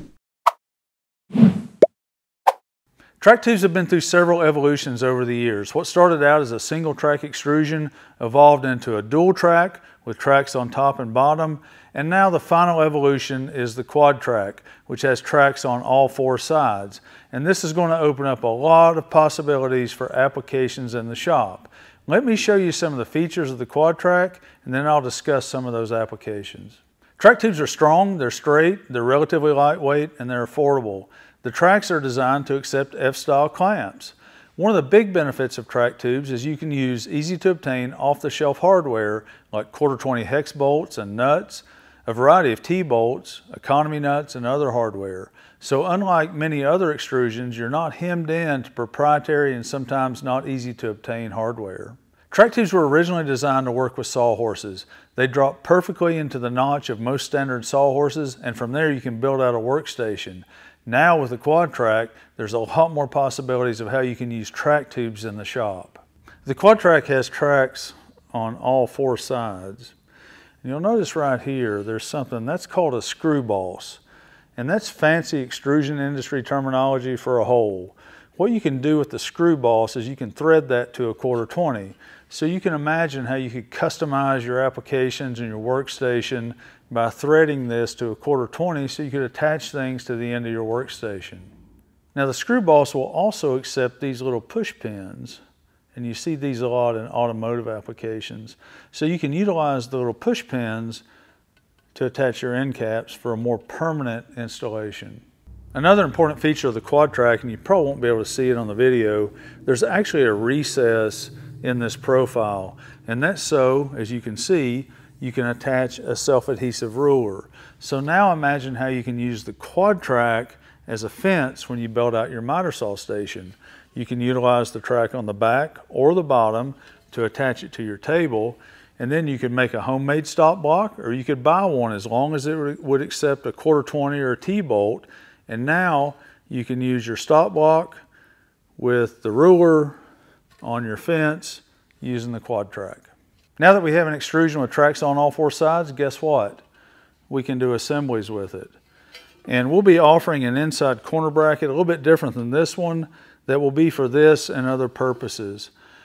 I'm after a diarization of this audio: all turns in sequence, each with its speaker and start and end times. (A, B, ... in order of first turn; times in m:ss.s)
0:03.2-1:09.9 A
1:10.6-1:14.0 A
1:14.6-1:31.5 A
1:32.1-1:35.4 A
1:35.9-1:41.0 A
1:41.9-2:18.0 A
2:18.8-2:20.0 A
2:20.6-2:26.6 A
2:27.3-2:28.7 A
2:29.4-2:35.7 A